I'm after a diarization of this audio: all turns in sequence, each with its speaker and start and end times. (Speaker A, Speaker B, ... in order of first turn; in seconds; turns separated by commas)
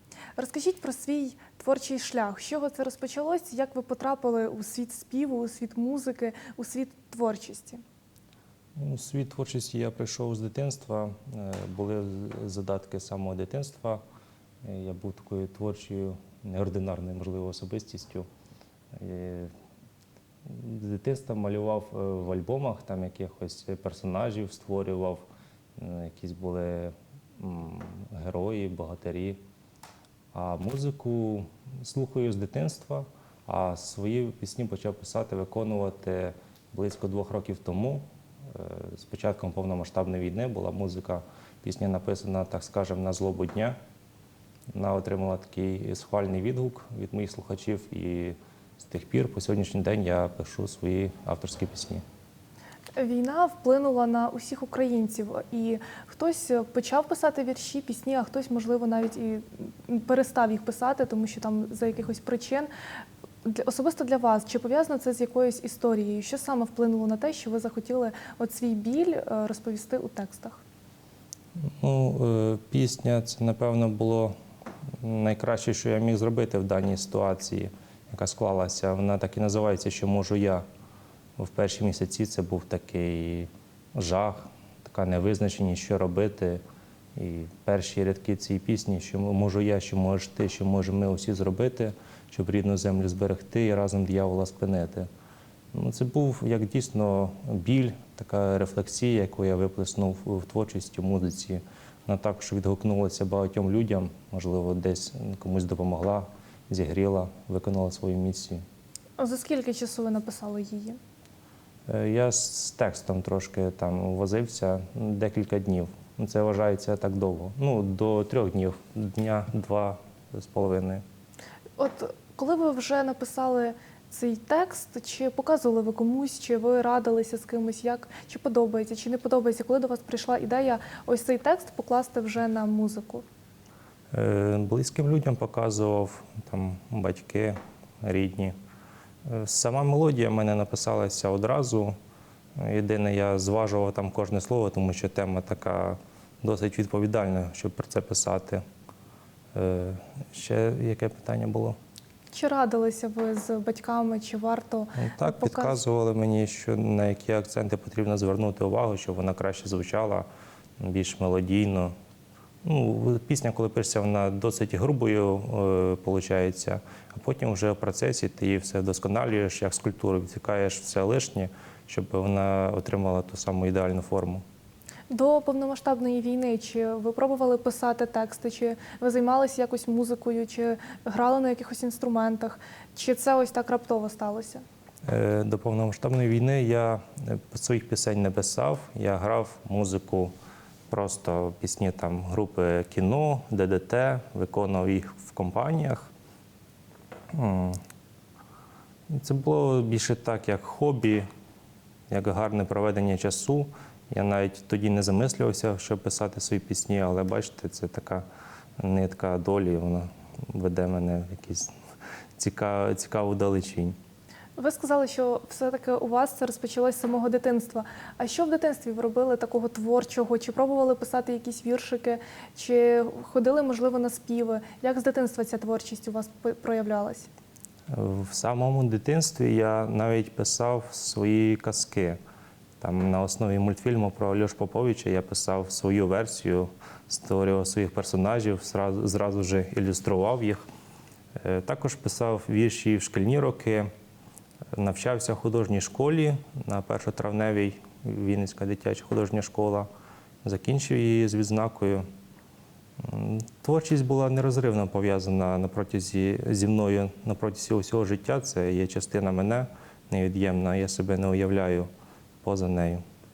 Speaker A: 0.4-7.8, Speaker B: 8.8-14.0, Speaker B: 14.6-18.3, Speaker B: 18.9-19.5, Speaker B: 20.5-25.2, Speaker B: 25.8-29.4, Speaker B: 30.3-43.8, Speaker B: 44.7-52.0, Speaker A: 53.0-62.7, Speaker A: 63.5-70.6, Speaker B: 71.6-74.3, Speaker B: 75.0-80.6, Speaker B: 81.4-86.6, Speaker B: 87.2-95.1, Speaker B: 95.7-108.6, Speaker A: 109.2-111.0, Speaker B: 111.9-121.0, Speaker A: 121.8-133.2, Speaker B: 134.1-138.6, Speaker B: 139.3-142.0, Speaker B: 142.6-148.6, Speaker B: 149.5-151.8, Speaker A: 152.3-155.8, Speaker B: 155.0-160.3, Speaker B: 160.8-161.9, Speaker B: 162.6-174.4, Speaker A: 175.1-184.6, Speaker B: 185.1-190.3, Speaker B: 190.9-196.1, Speaker B: 197.3-197.8, Speaker B: 199.1-201.3, Speaker B: 202.1-208.2, Speaker B: 208.8-211.7, Speaker B: 212.4-214.0, Speaker A: 214.6-227.3, Speaker B: 227.9-232.2, Speaker B: 232.8-240.7, Speaker B: 241.4-243.9, Speaker B: 244.7-249.9, Speaker B: 250.4-252.1, Speaker B: 253.0-261.9, Speaker B: 262.4-263.0